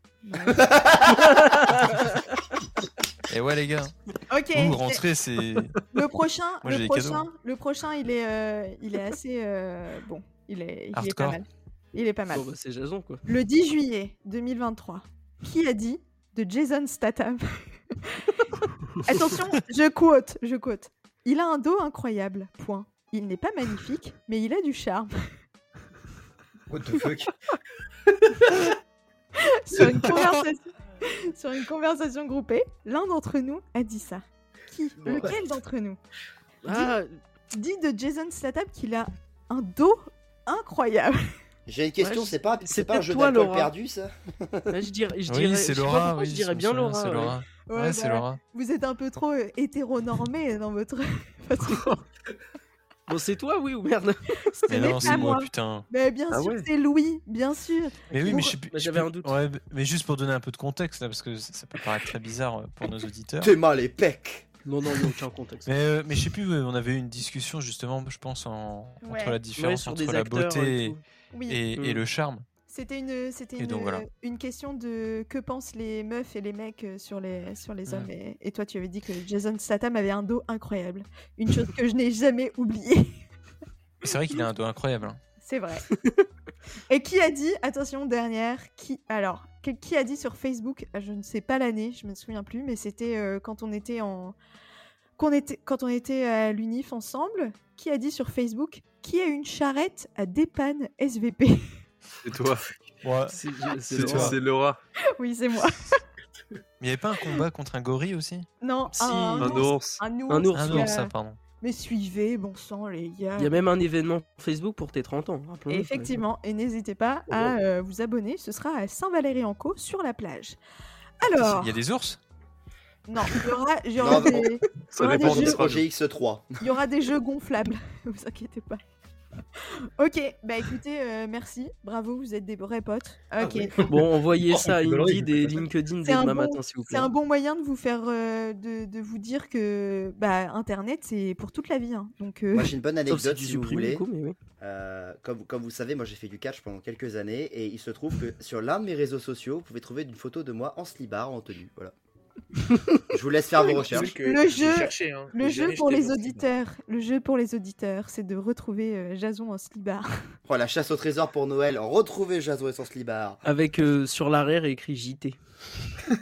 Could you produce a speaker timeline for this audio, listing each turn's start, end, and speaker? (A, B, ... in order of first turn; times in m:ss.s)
0:00.2-0:00.6 A
0:00.5-0:01.4 B
0:01.2-0:02.2 C
0:03.3-0:03.9 D
0:04.3-0:05.0 A
0:04.5-0:05.8 D
0:05.9-0:12.5 A
0:06.6-0:07.3 D
0:10.9-0:11.4 D
0:12.3-0:13.2 C
0:13.3-0:25.2 A
0:26.7-0:27.3 E
0:28.2-0:28.7 E
0:29.4-0:36.0 A
0:36.6-0:37.2 C
0:37.5-0:41.2 A
0:41.7-0:44.8 B
0:42.0-0:43.7 C
0:44.7-0:47.4 C
0:45.3-0:48.4 D
0:47.7-0:51.9 A
0:53.1-0:55.3 C
0:54.6-0:58.6 A
0:54.7-0:55.9 D
0:56.3-0:56.7 F
0:58.1-1:03.6 D
0:58.3-0:59.3 C
1:03.4-1:04.5 B
1:04.6-1:05.7 C
1:05.7-1:11.0 D
1:09.0-1:09.4 A
1:09.6-1:11.0 C
1:11.3-1:11.6 A
1:11.5-1:12.4 D
1:12.7-1:23.2 A
1:13.6-1:14.1 D
1:24.0-1:25.2 D
1:25.4-1:25.9 A
1:26.0-1:26.2 C
1:26.9-1:34.4 A
1:35.2-1:41.7 A
1:42.2-1:42.7 F
1:43.0-1:44.4 D
1:43.3-1:44.4 C
1:43.9-1:44.8 F
1:45.2-1:46.0 A
1:46.8-1:48.5 D
1:48.6-1:53.6 A
1:48.9-1:49.7 C
1:49.4-1:50.0 F
1:50.3-1:50.9 C
1:50.5-1:51.4 D
1:53.4-1:56.1 C
1:55.7-2:00.6 A
2:01.2-2:01.8 A
2:01.4-2:02.2 D
2:03.1-2:05.6 A
2:04.0-2:04.5 B
2:04.9-2:05.8 F
2:05.0-2:06.5 B
2:06.6-2:08.8 A
2:09.6-2:13.7 A
2:13.4-2:15.7 E
2:13.9-2:17.1 C
2:16.0-2:22.8 A
2:22.5-2:24.1 B
2:23.1-2:24.4 C
2:24.6-2:31.9 B
2:33.1-2:34.2 B
2:33.6-2:36.5 F
2:34.0-2:40.2 A
2:40.5-2:43.4 B
2:43.4-2:45.4 C